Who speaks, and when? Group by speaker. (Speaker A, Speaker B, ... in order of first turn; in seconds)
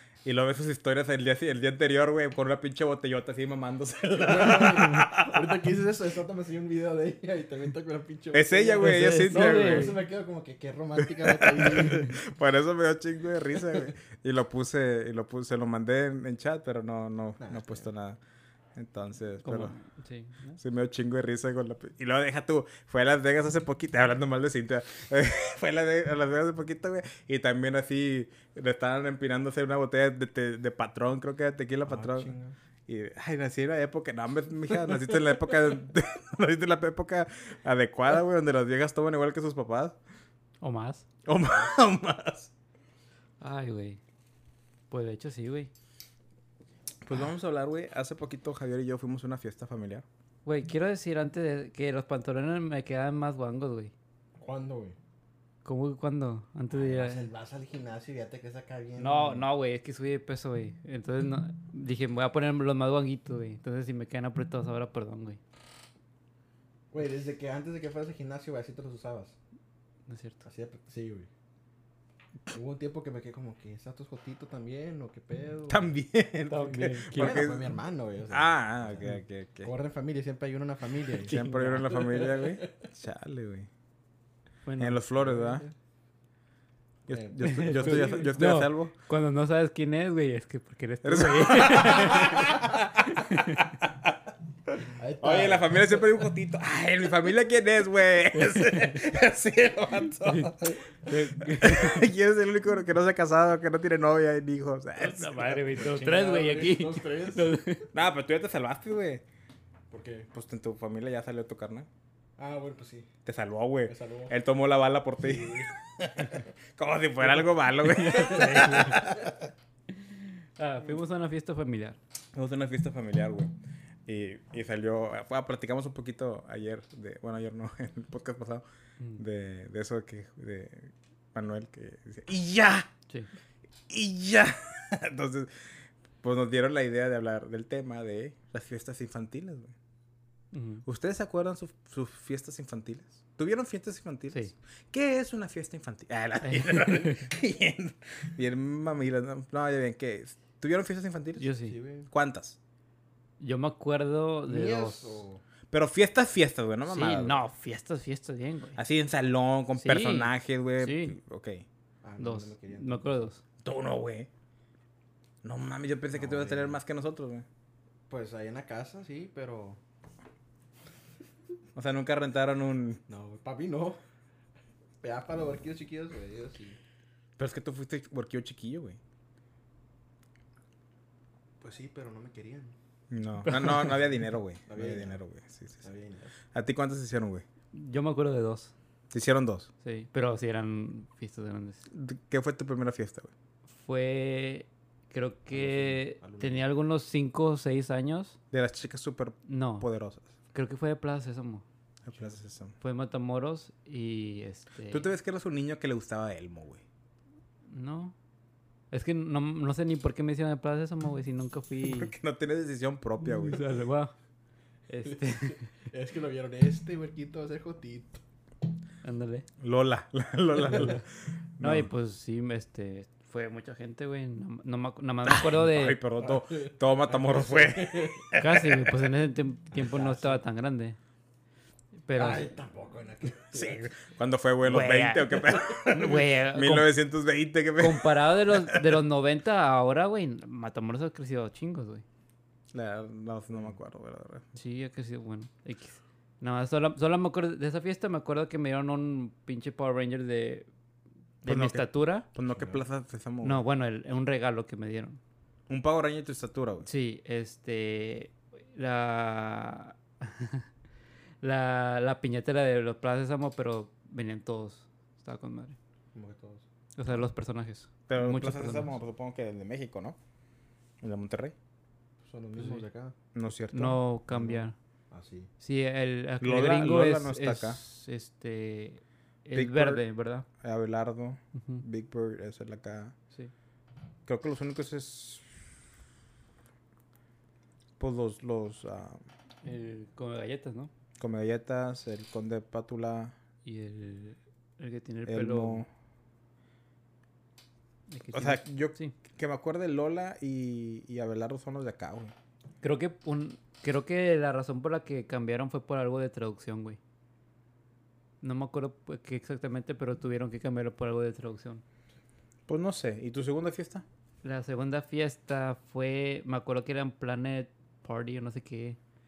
Speaker A: 0.2-5.6, 8.3-9.9, 11.0-18.2, 18.8-19.7, 20.6-32.3, 32.9-40.0, 41.2-42.5, 47.0-50.0, 75.7-77.7, 78.3-79.7, 81.2-83.7, 84.8-85.6, 87.1-88.9, 91.0-93.2, 93.8-94.2, 94.7-100.7, 101.6-105.6, 107.9-109.2, 110.3-111.9, 113.2-119.5, 122.3-123.5, 124.1-128.7, 129.2-132.9, 133.9-139.7, 140.8-151.5, 152.1-152.6, 155.7-157.4, 158.8-161.7, 163.6-164.3, 165.4-167.5, 171.8-173.0, 177.4-179.0, 183.1-185.9, 186.5-187.4, 189.1-189.7, 191.9-193.3, 198.5-200.3, 202.1-202.8, 204.9-206.8, 211.8-213.6, 219.6-221.0, 221.6-221.9, 225.3-228.9, 233.5-238.8, 242.7-244.4, 251.4-253.6, 255.7-256.9, 268.1-270.2, 271.0-271.6, 273.3-274.0, 276.4-277.8, 279.5-280.0, 280.6-283.1, 284.3-285.5, 288.0-289.2, 291.2-293.4, 295.3-295.9, 298.3-302.3, 312.7-314.0
Speaker B: 4.2-12.2, 17.4-17.9, 31.9-32.5, 54.4-55.0, 56.7-59.5, 66.9-69.4, 70.5-71.3, 72.5-75.9, 77.1-82.9, 85.2-85.7, 87.1-88.4, 95.0-96.1, 105.7-107.6, 109.9-110.3, 112.4-113.1, 113.9-114.3, 115.2-115.7, 118.2-119.1, 151.7-152.1, 154.5-155.4, 162.0-163.2, 166.1-166.8, 168.1-169.8, 173.1-174.0, 175.0-176.8, 181.6-182.8, 184.7-185.2, 185.8-186.3, 195.5-196.7, 215.1-218.2, 226.2-228.3, 229.7-230.4, 232.2-233.9, 235.7-236.0, 252.5-252.8, 266.1-266.6, 272.2-273.1, 274.4-275.5
Speaker C: 8.8-10.0, 19.4-20.6, 40.6-41.0, 43.4-44.0, 44.9-45.7, 50.5-53.9, 55.6-57.3, 59.0-65.4, 70.1-70.4, 76.5-77.4, 81.2-81.9, 84.7-85.0, 87.4-93.8, 98.4-99.0, 100.2-102.0, 105.0-107.9, 117.2-119.0, 120.1-122.0, 140.5-140.8, 146.4-147.2, 151.4-151.8, 153.4-155.2, 156.9-158.8, 159.8-161.2, 162.2-163.4, 183.4-184.0, 187.7-188.7, 189.8-191.8, 193.7-198.4, 199.5-199.9, 200.5-201.7, 202.8-205.1, 207.7-208.2, 208.9-212.1, 213.2-214.1, 214.9-215.7, 219.0-219.5, 220.6-221.0, 221.6-226.0, 228.4-231.0, 232.1-232.5, 234.7-236.9, 237.8-242.0, 244.6-250.7, 251.4-252.3, 253.4-255.2, 256.9-260.7, 261.4-265.8, 267.0-269.0, 272.6-272.9, 273.7-274.8, 275.6-280.5, 281.6-281.8, 289.6-290.9, 293.6-295.8, 298.1-299.1, 302.8-307.0, 308.4-311.8, 314.4-319.0